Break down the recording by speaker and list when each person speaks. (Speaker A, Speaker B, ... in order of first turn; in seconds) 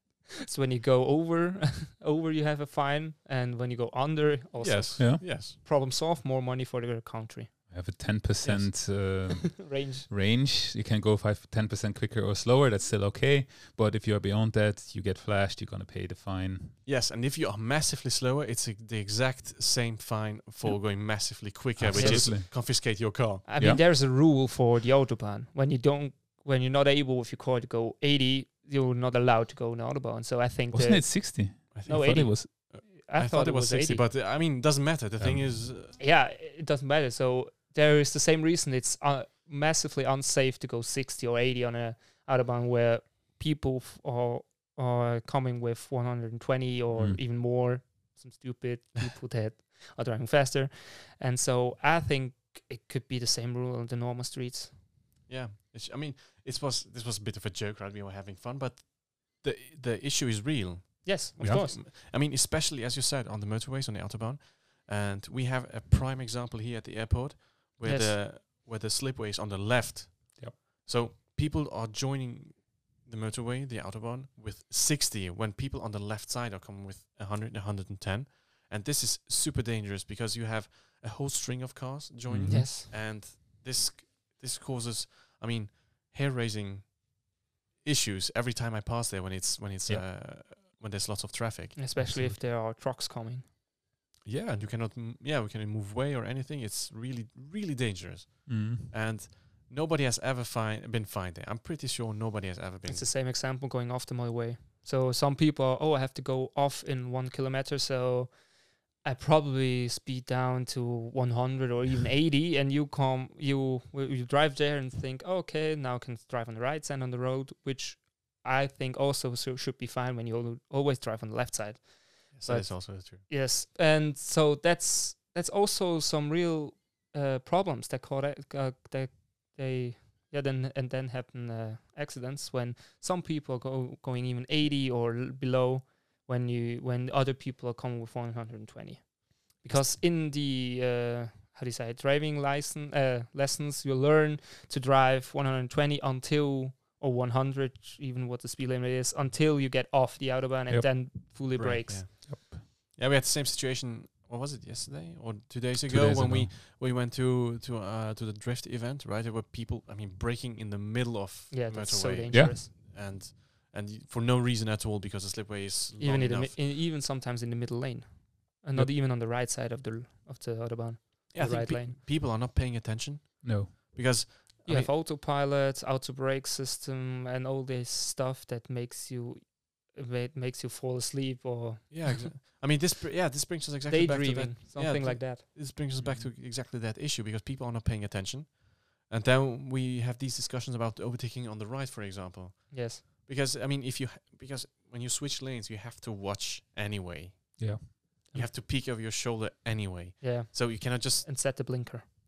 Speaker A: 0.5-7.5, 8.8-10.1, 21.9-22.6, 23.4-34.1, 36.0-54.8, 61.0-61.8, 67.8-68.2, 82.5-82.9, 91.8-93.5, 102.9-108.4, 108.9-152.1, 161.5-162.7, 166.0-172.0, 174.7-182.3, 183.9-185.4, 192.7-193.1, 200.2-202.1
Speaker B: 4.6-5.6, 8.4-8.8, 16.9-23.4, 31.7-36.0, 55.3-87.0, 87.8-91.8, 94.2-103.1, 122.3-123.2, 151.5-166.6, 171.3-174.9, 181.9-201.3
Speaker C: 7.7-16.8, 20.6-22.5, 30.7-32.5, 35.2-35.7, 46.9-47.2, 61.4-61.7, 82.3-82.7, 92.0-92.4, 98.5-98.9, 152.3-152.6, 155.8-156.5, 162.3-162.6, 173.4-173.8, 186.0-186.3, 197.6-198.3